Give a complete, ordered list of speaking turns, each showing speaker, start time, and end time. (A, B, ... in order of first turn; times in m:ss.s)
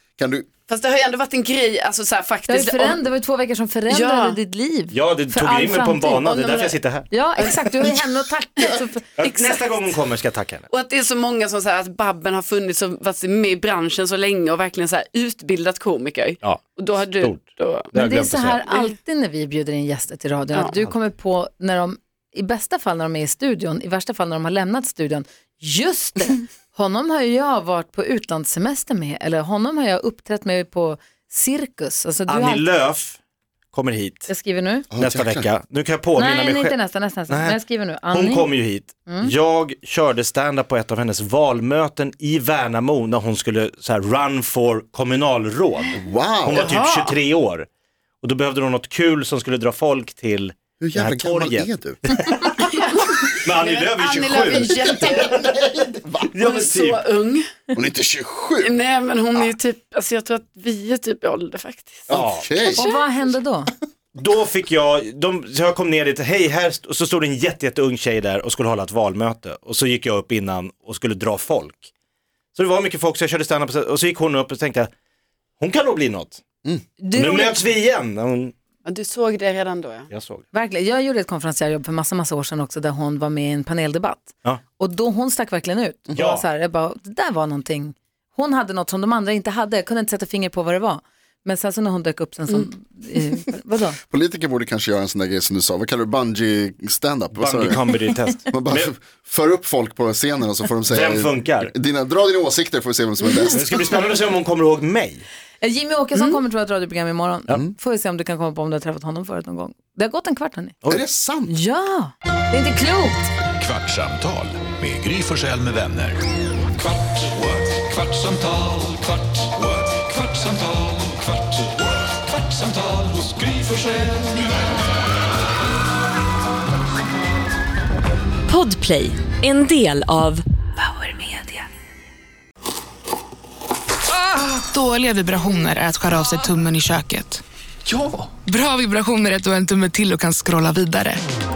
0:00.2-0:00.5 A
0:00.7-0:03.0 B
0:02.5-0:06.4 C
0:03.9-0:04.4 B
0:04.9-0:07.1 D
0:06.2-0:06.8 B
0:07.1-0:09.1 C
0:07.4-0:08.0 B
0:08.6-0:10.0 B
0:09.2-0:10.7 D
0:10.7-0:17.9 B
0:16.4-0:18.6 D
0:17.9-0:32.7 C
0:18.6-0:19.0 B
0:32.3-0:33.2 D
0:33.7-0:34.3 D
0:34.3-0:34.9 C
0:34.9-0:35.5 A
0:35.0-0:36.8 D
0:36.2-0:38.5 C
0:37.3-0:47.7 D
0:46.0-0:46.7 A
0:46.5-0:47.2 B
0:48.2-0:52.8 D
0:50.8-0:52.0 A
0:52.6-0:55.5 B
0:53.4-0:55.5 D
0:54.7-0:56.3 A
0:56.2-0:57.1 D
0:56.4-0:57.4 B
0:57.8-0:58.7 A
0:58.6-1:02.1 B
1:02.1-1:02.7 D
1:02.1-1:02.8 A
1:02.7-1:03.7 C
1:04.2-1:11.9 D
1:12.5-1:14.9 D
1:15.6-1:16.4 D
1:17.0-1:17.6 C
1:17.1-1:18.5 D
1:18.8-1:20.1 B
1:20.1-1:20.4 D
1:20.5-1:34.0 C
1:26.2-1:26.4 D
1:34.1-1:38.0 A
1:37.4-1:38.9 D
1:38.5-1:44.0 A
1:40.9-1:41.7 D
1:43.4-1:45.3 D
1:45.6-1:50.8 C
1:50.9-1:51.5 A
1:51.5-1:53.3 C
1:53.6-1:56.2 E
1:57.2-2:01.2 E
2:02.7-2:04.4 E
2:08.5-2:10.4 F
2:11.0-2:11.6 G
2:14.3-2:21.2 G